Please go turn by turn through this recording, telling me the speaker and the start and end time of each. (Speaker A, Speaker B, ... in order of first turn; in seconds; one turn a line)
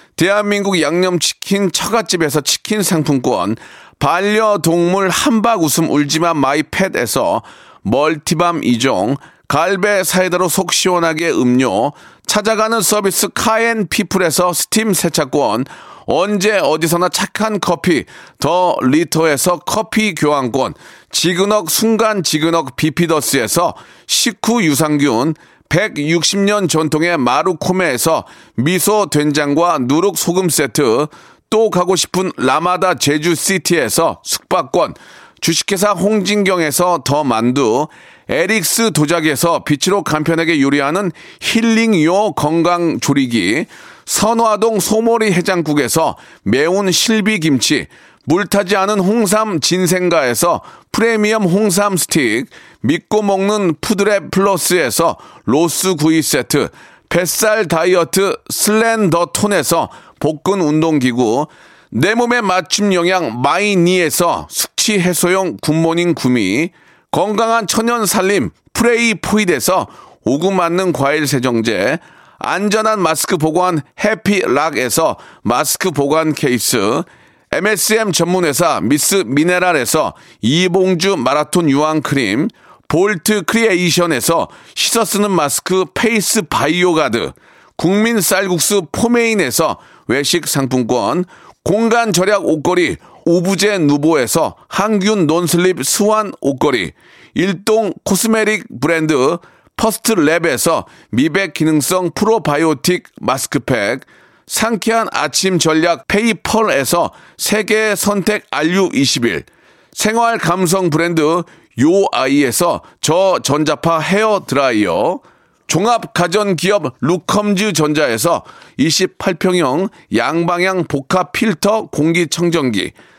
Speaker A: 0.2-122.9